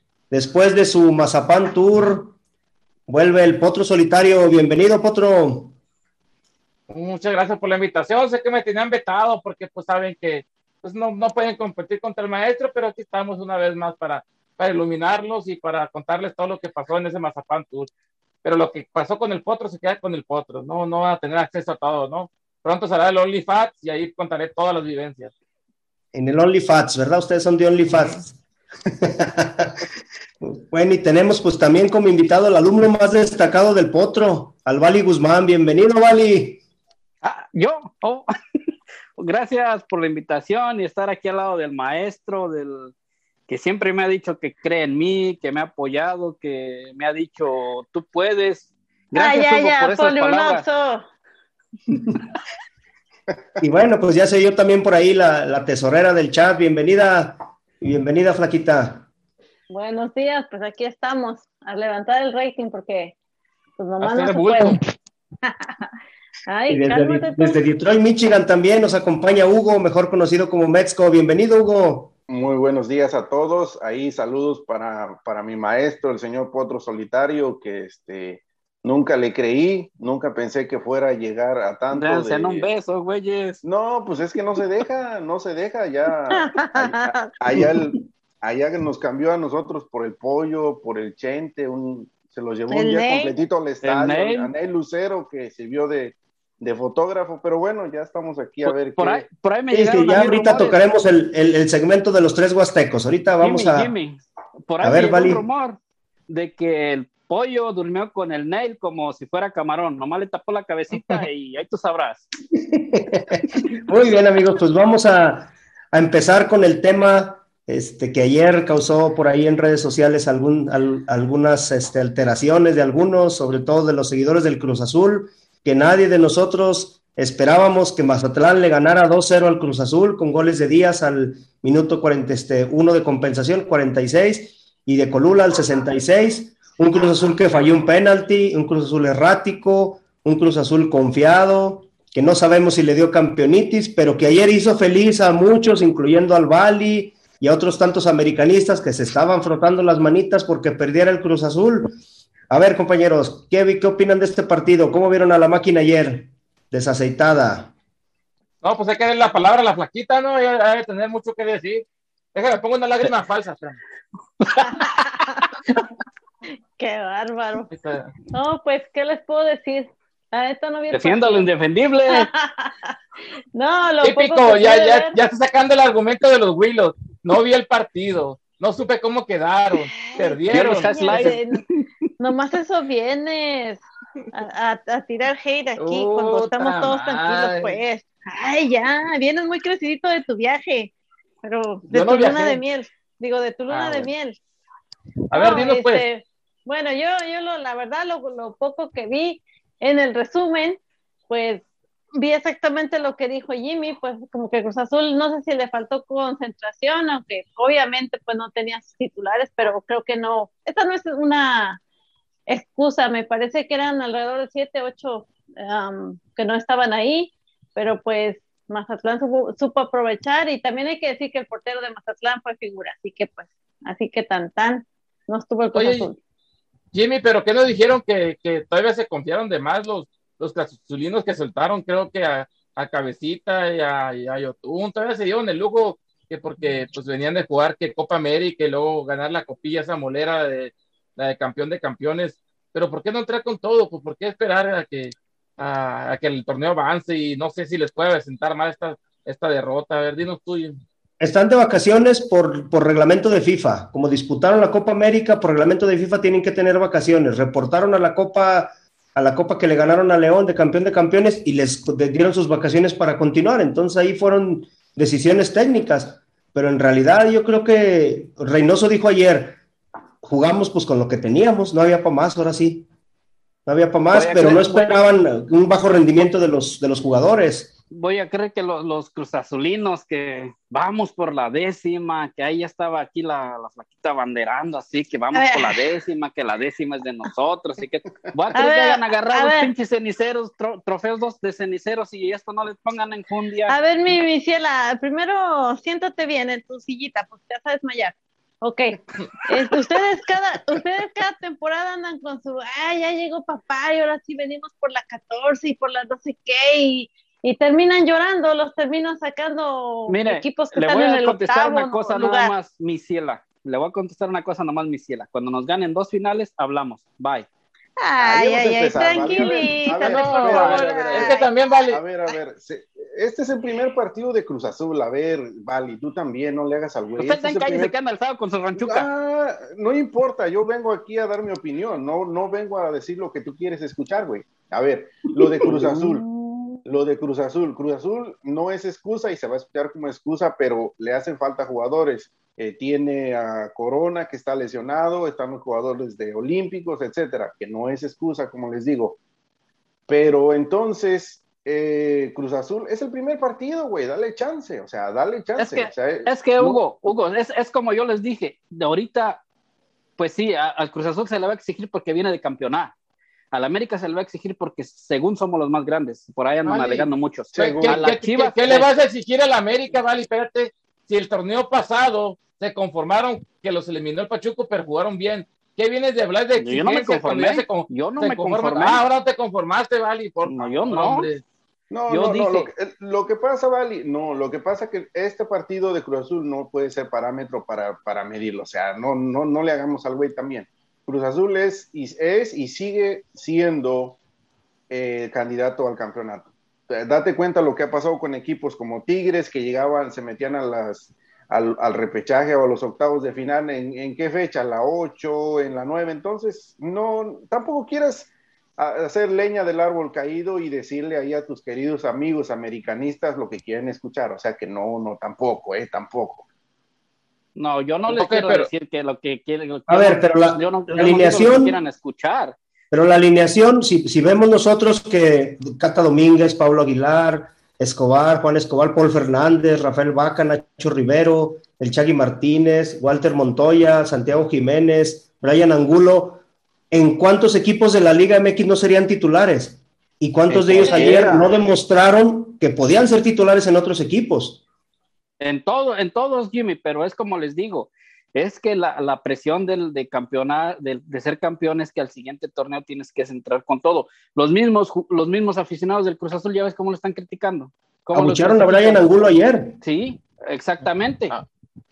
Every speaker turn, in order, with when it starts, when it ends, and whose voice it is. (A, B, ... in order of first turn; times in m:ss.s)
0:00.3-0:02.3 A
0:03.1-0:05.7 A
0:06.9-0:17.9 B
0:18.4-0:25.3 B
0:26.1-0:28.4 A
0:29.0-0:29.8 A
0:30.4-0:36.6 A
0:37.2-0:38.3 C
0:39.2-0:42.9 C
0:43.5-0:50.6 C
0:49.1-0:51.0 D
0:53.6-0:59.1 A
0:59.7-1:03.2 D
1:03.8-1:04.8 D
1:04.0-1:04.8 B
1:05.4-1:05.9 D
1:06.5-1:07.6 D
1:06.7-1:12.1 A
1:12.3-1:22.7 E
1:21.9-1:23.6 C
1:23.6-1:39.2 E
1:26.3-1:27.4 D
1:32.7-1:33.3 D
1:33.8-1:34.5 C
1:38.6-1:40.8 C
1:39.7-1:43.9 A
1:43.4-1:52.3 C
1:44.8-1:45.4 A
1:52.5-2:31.9 A
2:32.5-2:37.7 A
2:38.6-2:41.8 B
2:42.3-2:43.8 B
2:44.5-2:44.8 C
2:44.7-2:45.4 D
2:46.8-2:47.7 D
2:47.7-2:48.1 B
2:48.3-2:51.5 D
2:50.9-2:52.3 C
2:52.1-2:52.9 D
2:53.5-2:55.1 D
2:54.0-3:01.4 B
2:59.8-3:01.6 D
3:00.5-3:01.6 C
3:02.2-3:10.9 D
3:05.8-3:07.8 B
3:11.4-3:14.4 D
3:11.9-3:12.6 B
3:13.7-3:14.1 B
3:15.3-3:16.0 B
3:15.3-3:31.8 D
3:32.5-3:46.2 D
3:45.7-3:46.1 B
3:46.9-4:10.8 B
4:11.2-4:29.6 A
4:30.2-4:32.9 A
4:33.6-4:37.7 A
4:34.1-4:35.0 C
4:37.9-4:53.8 C
4:45.3-4:45.8 D
4:48.5-4:49.7 D
4:53.7-5:12.5 D
5:10.1-5:17.5 C
5:18.0-5:21.5 D
5:18.2-5:21.4 E
5:19.3-5:22.0 B
5:21.9-5:27.9 E
5:27.2-5:29.1 C
5:28.8-5:36.2 E
5:35.6-5:36.0 A
5:36.8-5:49.2 E
5:50.1-5:56.3 E
5:55.6-5:59.4 C
6:00.2-6:02.9 C
6:03.5-6:08.9 C
6:06.6-6:21.4 B
6:07.5-6:08.1 E
6:16.6-6:19.0 C
6:20.5-6:21.3 C
6:21.9-6:34.2 E
6:22.1-6:22.7 C
6:34.9-6:56.4 E
6:57.6-7:02.6 C
6:58.1-6:58.7 B
6:59.9-7:01.8 A
7:02.9-7:24.6 A
7:20.5-7:21.5 C
7:20.8-7:21.2 B
7:25.4-7:39.1 C
7:38.1-7:39.8 A
7:39.8-7:41.3 C